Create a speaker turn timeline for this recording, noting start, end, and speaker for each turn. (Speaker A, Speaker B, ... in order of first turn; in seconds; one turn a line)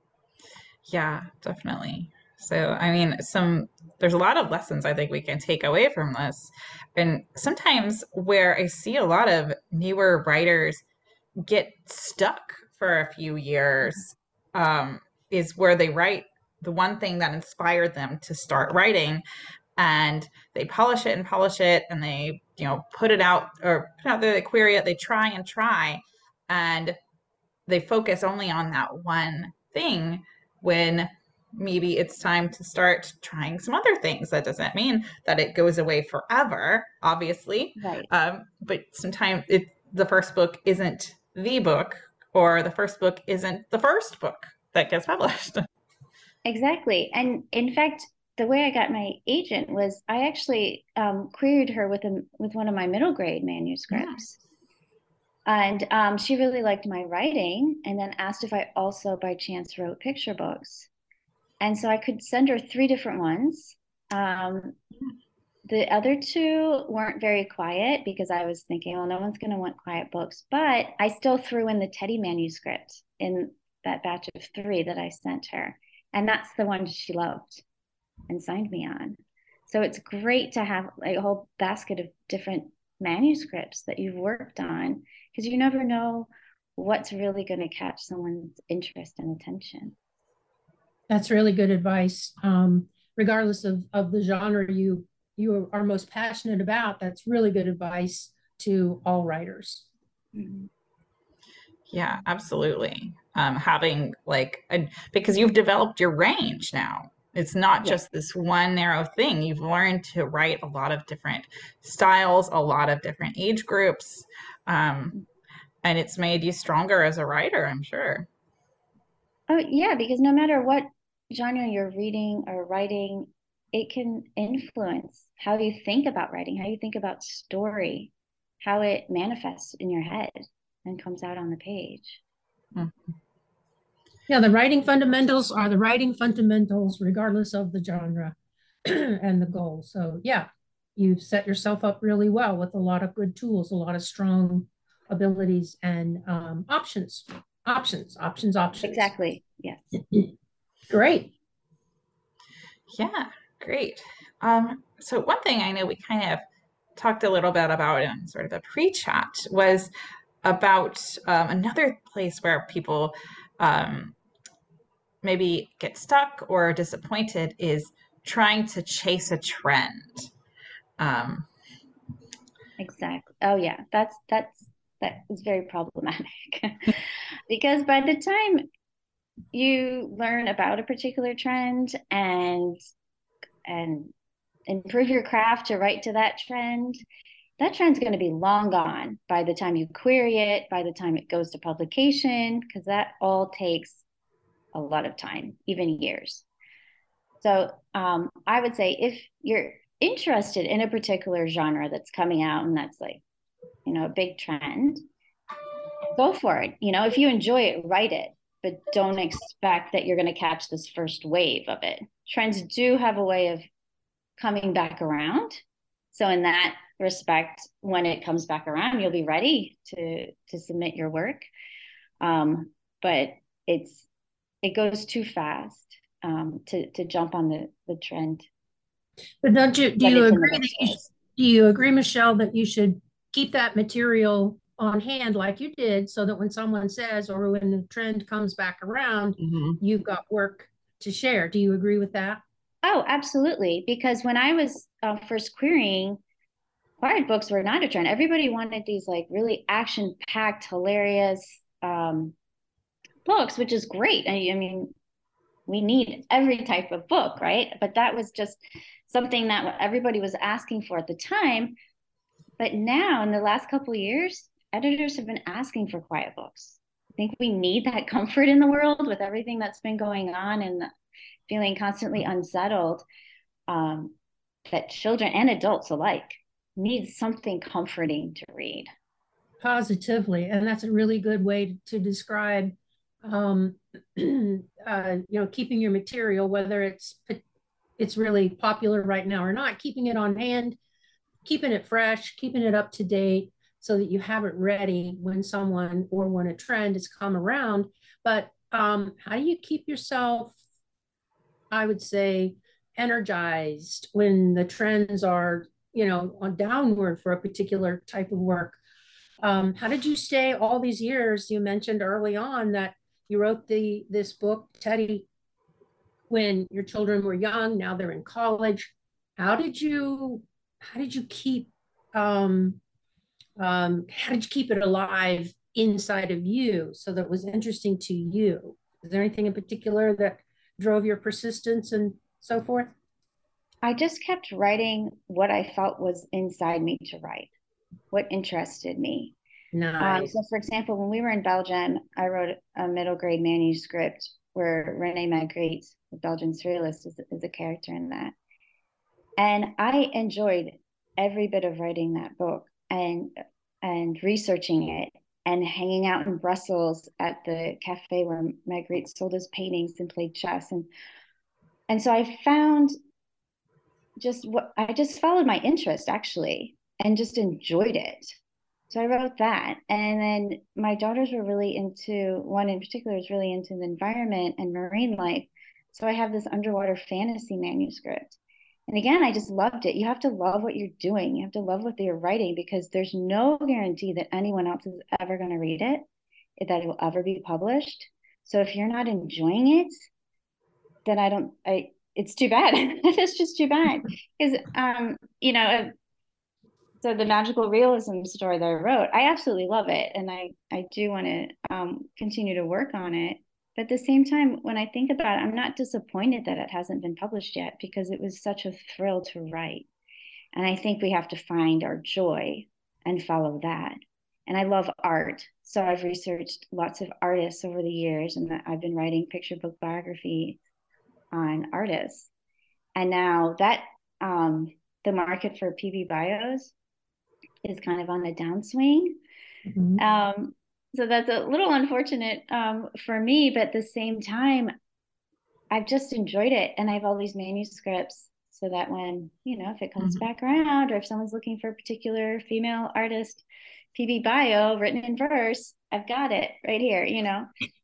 Speaker A: 0.8-10.8
Speaker A: 11.4-19.2
Speaker A: 19.8-27.0
Speaker A: 27.7-45.6
Speaker B: 37.8-38.1
Speaker B: 46.4-54.4
Speaker B: 55.5-60.9
Speaker B: 61.6-64.8
Speaker B: 65.7-77.6
Speaker B: 78.3-89.9
Speaker C: 91.1-99.8
Speaker B: 100.3-100.7
Speaker A: 101.9-115.2
Speaker A: 115.8-118.3
Speaker B: 119.5-128.1
Speaker B: 128.6-132.2
Speaker C: 134.3-149.1
Speaker B: 148.8-149.9
Speaker C: 150.9-151.3
Speaker A: 152.9-156.4
Speaker A: 156.9-159.9
Speaker A: 160.4-164.2
Speaker A: 165.2-170.3
Speaker A: 171.0-171.5
Speaker B: 172.8-178.7
Speaker B: 179.5-182.8
Speaker B: 183.7-184.1
Speaker B: 184.7-187.0
Speaker B: 187.6-194.0
Speaker B: 194.7-196.4
Speaker B: 197.4-203.2
Speaker B: 203.8-205.0
Speaker B: 206.1-213.6
Speaker B: 214.4-221.4
Speaker B: 222.2-224.1
Speaker B: 224.6-228.5
Speaker C: 229.4-242.4
Speaker B: 230.0-231.0
Speaker A: 239.4-239.8
Speaker B: 242.8-246.2
Speaker B: 247.0-252.3
Speaker B: 253.2-254.9
Speaker B: 255.7-261.7
Speaker B: 262.6-270.9
Speaker B: 271.5-273.0
Speaker B: 273.7-274.1
Speaker B: 274.7-278.9
Speaker C: 279.6-287.4
Speaker C: 288.0-290.8
Speaker C: 291.4-300.6
Speaker C: 301.7-308.8
Speaker C: 309.4-315.3
Speaker C: 316.3-322.8
Speaker C: 323.6-332.9
Speaker B: 333.8-337.5
Speaker B: 338.1-339.3
Speaker C: 339.7-340.3
Speaker B: 340.0-348.3
Speaker B: 349.4-360.9
Speaker B: 361.9-362.9
Speaker B: 364.2-368.4
Speaker B: 368.9-378.4
Speaker B: 378.9-386.0
Speaker B: 386.6-390.1
Speaker B: 391.1-395.9
Speaker B: 397.0-409.9
Speaker B: 410.5-420.6
Speaker B: 421.3-422.3
Speaker B: 422.9-426.7
Speaker B: 427.6-429.2
Speaker C: 429.7-430.0
Speaker B: 430.0-434.7
Speaker B: 435.7-447.5